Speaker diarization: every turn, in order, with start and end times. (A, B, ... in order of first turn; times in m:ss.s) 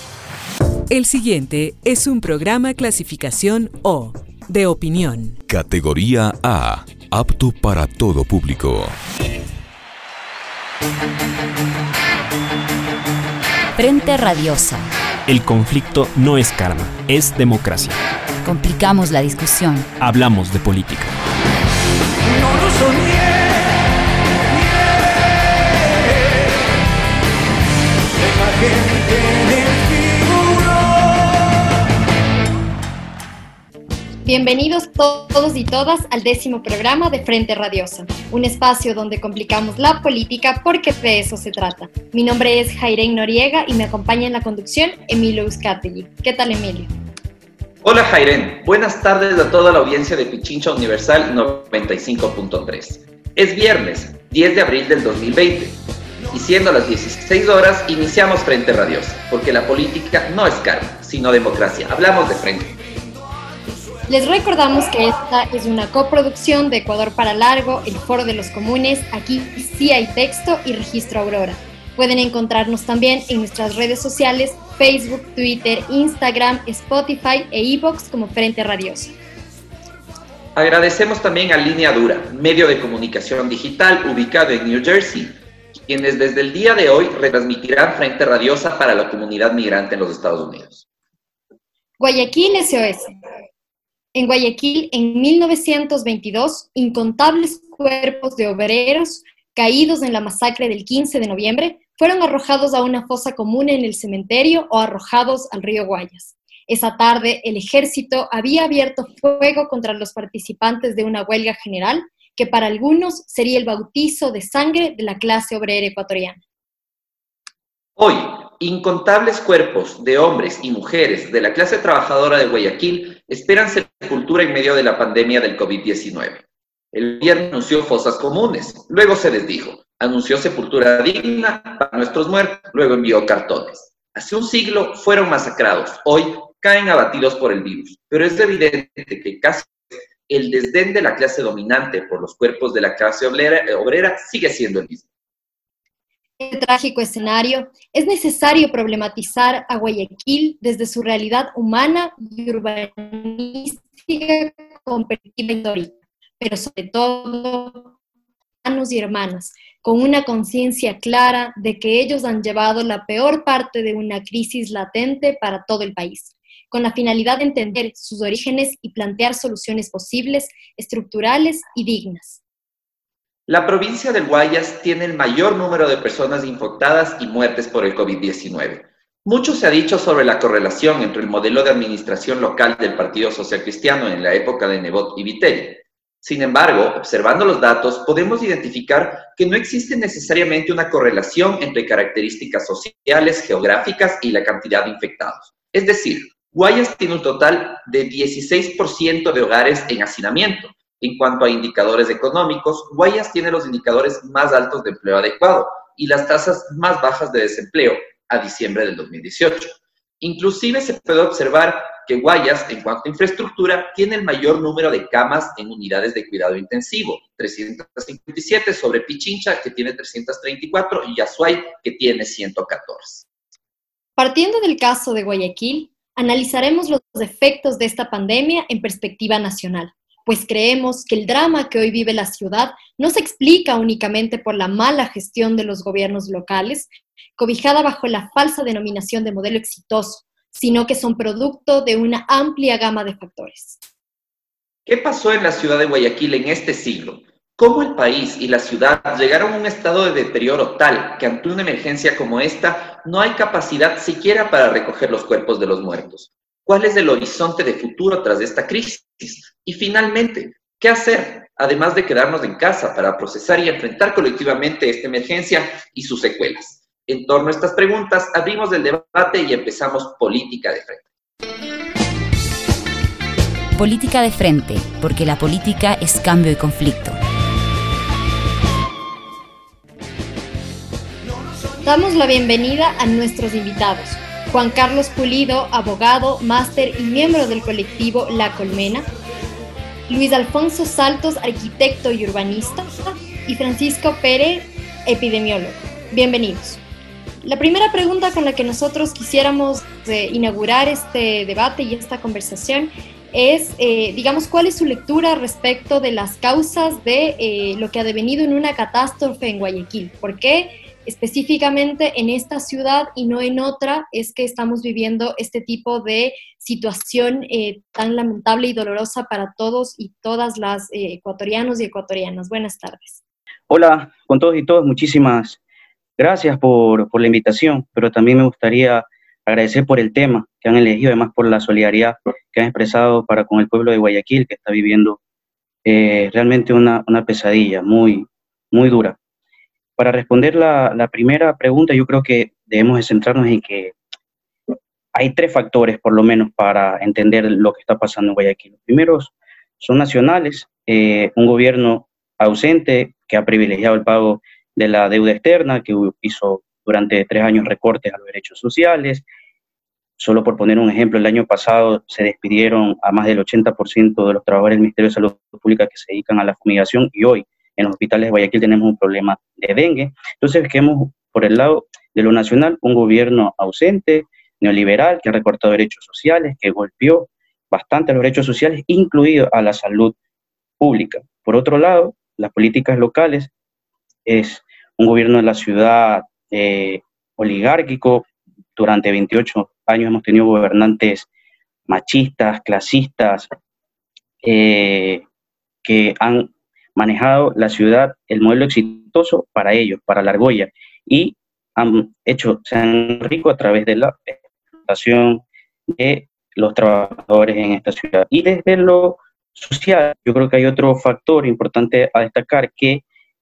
0:00.9-0:05.4 A
0:05.4-0:09.0 B
0:13.8-0:14.9 C
0:15.3-0:18.0 D
0:18.4-0:19.9 C
0:20.0-0:21.1 D
0:34.2-0:46.9 E
0:47.8-0:55.8 F
0:56.3-1:02.8 F
1:04.1-1:19.1 E
1:20.6-1:25.4 F
1:25.9-1:30.8 F
1:32.0-1:33.1 E
1:34.2-1:56.4 E
1:58.0-2:06.4 F
2:06.9-2:19.7 F
2:20.3-2:25.0 F
2:26.4-2:37.9 E
2:38.6-2:52.4 E
2:53.5-3:43.3 F
3:44.2-4:03.8 E
4:04.9-4:31.0 F
4:33.8-4:37.2 C
4:41.8-4:49.1 E
4:50.1-4:56.8 E
4:57.4-5:23.2 E
5:23.7-5:25.6 G
5:26.2-5:35.2 G
5:35.8-5:39.2 G
5:40.0-5:44.0 G
5:45.2-5:59.2 G
6:00.2-6:20.2 G
6:20.8-6:23.5 G
6:24.3-6:28.2 G
6:28.8-6:31.3 G
6:31.9-6:33.5 G
6:34.4-6:35.2 G
6:35.8-6:53.0 G